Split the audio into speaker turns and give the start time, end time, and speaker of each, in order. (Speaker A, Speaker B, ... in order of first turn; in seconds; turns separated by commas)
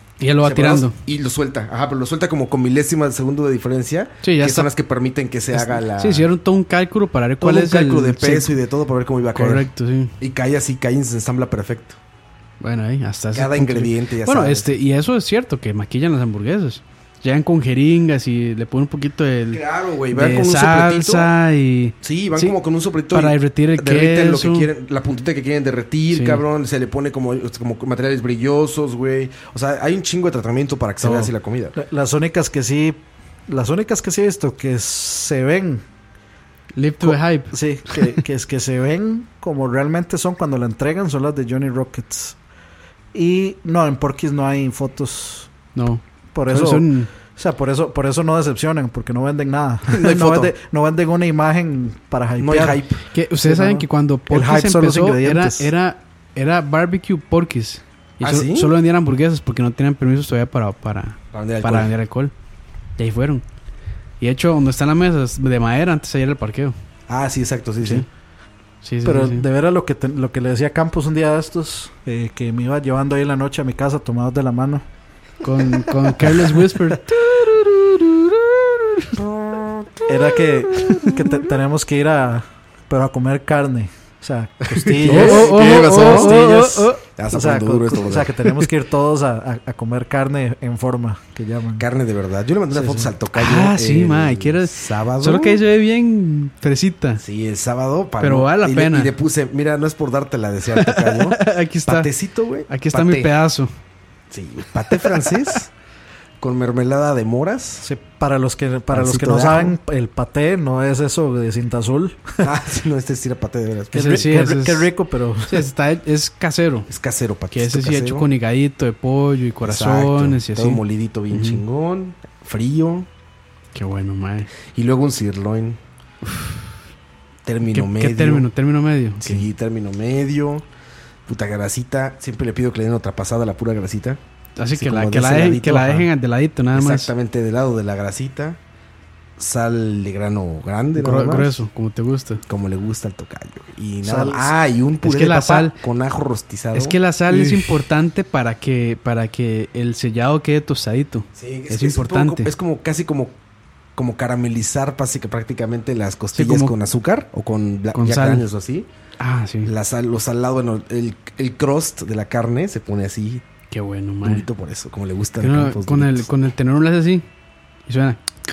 Speaker A: 0.2-0.9, Speaker B: 0.4-6.3, Speaker A: 4.2-4.7, Speaker A: 5.5-8.5, Speaker B: 7.4-9.7, Speaker A: 9.3-10.2, Speaker B: 10.2-12.0, Speaker A: 12.6-22.6, Speaker B: 13.3-14.7, Speaker B: 19.5-21.3, Speaker B: 22.0-31.7, Speaker A: 23.1-24.7, Speaker A: 26.1-26.4, Speaker A: 31.0-31.3, Speaker C: 31.8-35.8, Speaker A: 36.8-38.1, Speaker C: 37.0-42.4, Speaker C: 43.1-45.5, Speaker A: 45.7-47.1, Speaker C: 46.3-52.9, Speaker B: 49.9-50.5, Speaker B: 52.4-53.0, Speaker A: 53.1-62.3, Speaker C: 53.4-55.7, Speaker B: 58.2-58.7, Speaker B: 61.3-61.9, Speaker A: 63.0-63.4, Speaker A: 64.2-66.8, Speaker B: 67.1-68.1, Speaker A: 68.8-69.5, Speaker C: 69.0-74.8, Speaker A: 75.4-77.2, Speaker C: 75.8-76.6, Speaker B: 79.2-81.2, Speaker C: 80.1-91.9, Speaker B: 84.7-86.4, Speaker A: 85.0-87.0, Speaker B: 87.2-88.4, Speaker B: 91.8-95.6, Speaker C: 92.7-93.1, Speaker A: 93.3-97.2, Speaker B: 97.2-103.3, Speaker A: 98.2-99.1, Speaker A: 100.7-102.1, Speaker A: 102.7-103.7, Speaker B: 104.3-105.7, Speaker A: 104.9-105.6, Speaker B: 106.4-107.9, Speaker C: 107.8-112.4, Speaker B: 108.9-109.8, Speaker B: 112.4-114.3, Speaker C: 113.9-115.7, Speaker A: 114.0-114.9, Speaker A: 115.5-116.9, Speaker B: 116.9-118.3, Speaker A: 117.5-121.6, Speaker B: 119.6-123.1, Speaker A: 123.7-124.5, Speaker B: 124.7-125.8, Speaker A: 126.2-126.7, Speaker B: 127.5-128.5, Speaker A: 127.7-129.4, Speaker B: 129.2-130.7, Speaker B: 131.3-134.2, Speaker A: 134.6-137.1, Speaker B: 134.7-136.1, Speaker B: 136.7-138.6, Speaker B: 139.4-141.6, Speaker A: 140.9-142.4, Speaker B: 142.5-146.9, Speaker C: 144.0-144.5, Speaker A: 145.0-145.8, Speaker A: 146.7-152.5, Speaker C: 147.3-147.7, Speaker B: 151.3-153.4, Speaker B: 153.9-158.9, Speaker A: 156.3-156.7, Speaker A: 157.9-158.4, Speaker A: 159.2-159.7, Speaker B: 159.6-163.4, Speaker A: 163.7-164.4, Speaker B: 164.2-166.3, Speaker A: 165.4-167.2, Speaker A: 167.9-168.2